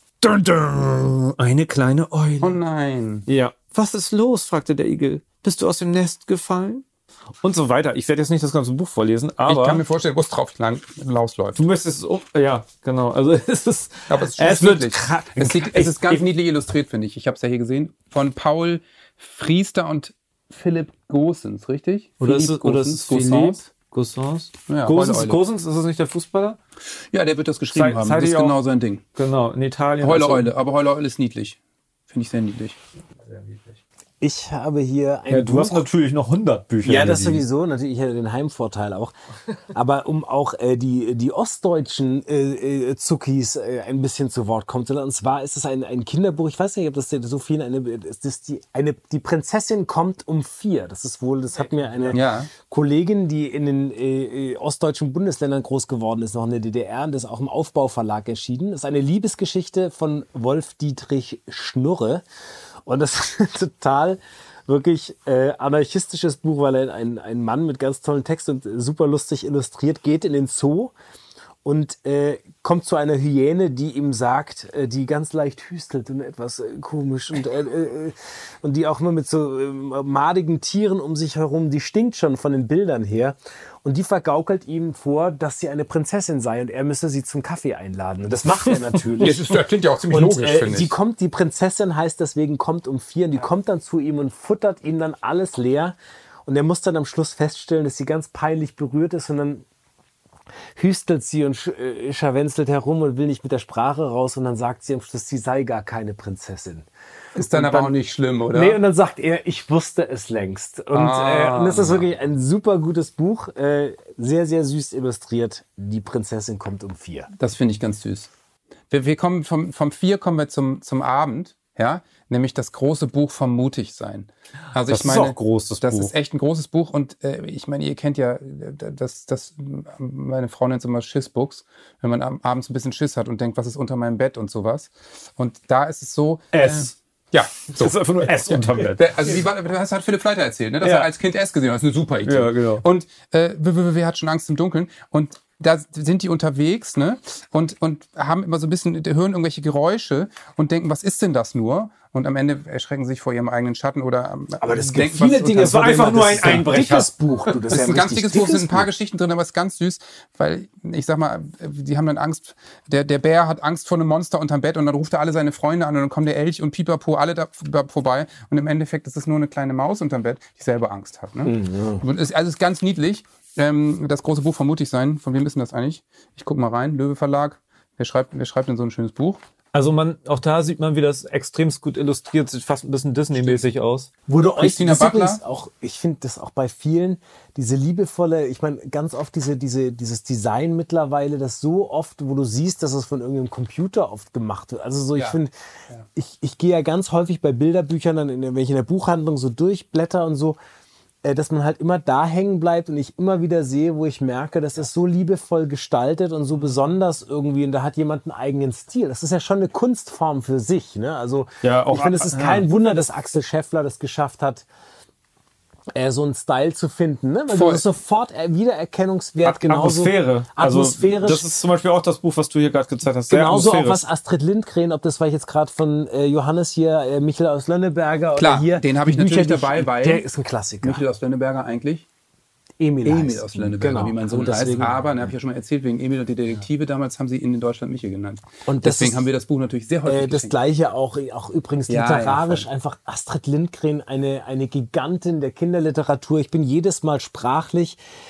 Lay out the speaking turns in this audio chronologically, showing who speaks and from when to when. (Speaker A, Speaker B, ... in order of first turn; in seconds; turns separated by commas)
Speaker A: 0.2-2.6, Speaker B: 2.4-3.2, Speaker A: 3.3-6.8, Speaker A: 7.4-9.8, Speaker B: 9.4-11.6, Speaker A: 11.6-16.2, Speaker B: 14.1-23.6, Speaker A: 22.2-26.6, Speaker B: 24.7-25.4, Speaker B: 27.1-29.0, Speaker A: 27.7-28.6, Speaker A: 29.2-30.5, Speaker B: 30.0-31.6, Speaker B: 32.1-32.8, Speaker C: 34.2-35.8, Speaker A: 35.3-37.4, Speaker C: 36.8-39.1, Speaker C: 39.7-62.2, Speaker B: 52.1-52.5, Speaker C: 62.9-70.9, Speaker C: 71.6-89.5, Speaker B: 89.2-90.9, Speaker C: 90.1-99.7, Speaker C: 100.8-106.9, Speaker B: 107.3-108.8, Speaker C: 107.5-107.9, Speaker C: 108.5-117.3, Speaker B: 110.9-112.0, Speaker B: 117.4-118.3, Speaker B: 118.9-156.0, Speaker A: 124.9-126.1, Speaker A: 136.5-136.9, Speaker A: 137.7-139.1, Speaker A: 140.8-141.1, Speaker A: 142.2-142.8, Speaker C: 154.6-158.9, Speaker A: 155.5-157.1, Speaker B: 157.7-179.4, Speaker C: 171.4-172.0, Speaker A: 179.7-184.1, Speaker B: 183.3-183.6, Speaker C: 184.3-195.5, Speaker B: 184.6-185.4, Speaker C: 196.1-200.6, Speaker C: 201.2-214.6, Speaker A: 211.6-212.6, Speaker C: 215.9-221.4, Speaker B: 217.5-217.8, Speaker A: 219.4-224.0, Speaker C: 223.3-231.0, Speaker B: 228.3-230.2, Speaker B: 230.8-232.1, Speaker C: 232.8-235.0, Speaker B: 233.0-240.5, Speaker C: 238.7-239.3, Speaker C: 240.1-248.0, Speaker B: 241.9-242.7